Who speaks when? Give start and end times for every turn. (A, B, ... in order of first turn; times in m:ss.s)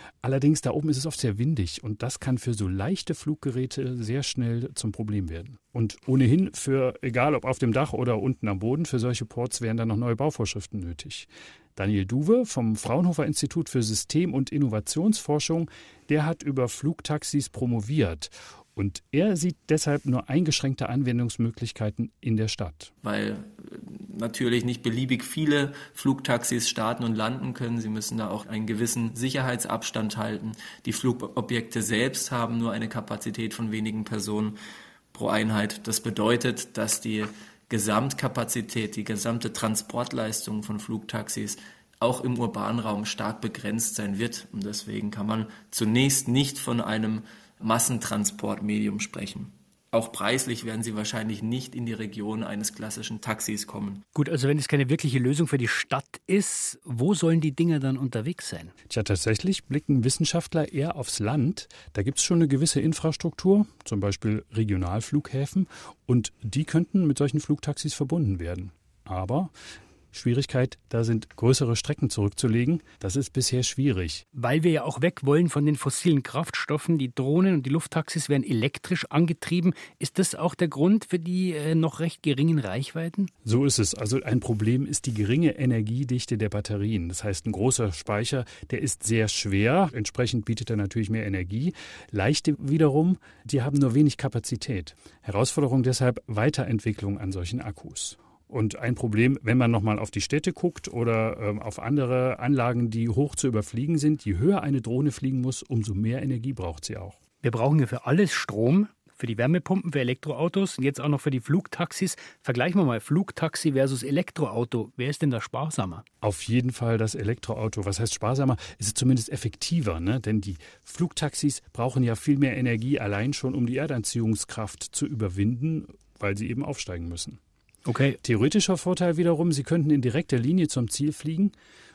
0:00.2-0:22.9 A
0:23.0-0:34.6 B
0:35.1-0:54.0 B
0:54.1-0:58.7 C
0:58.9-1:09.5 A
1:10.1-1:14.2 A
1:14.3-1:23.3 C
1:23.4-1:47.2 A
1:47.4-1:56.0 C
1:56.2-2:07.4 A
2:07.8-2:08.2 C
2:08.2-2:11.5 A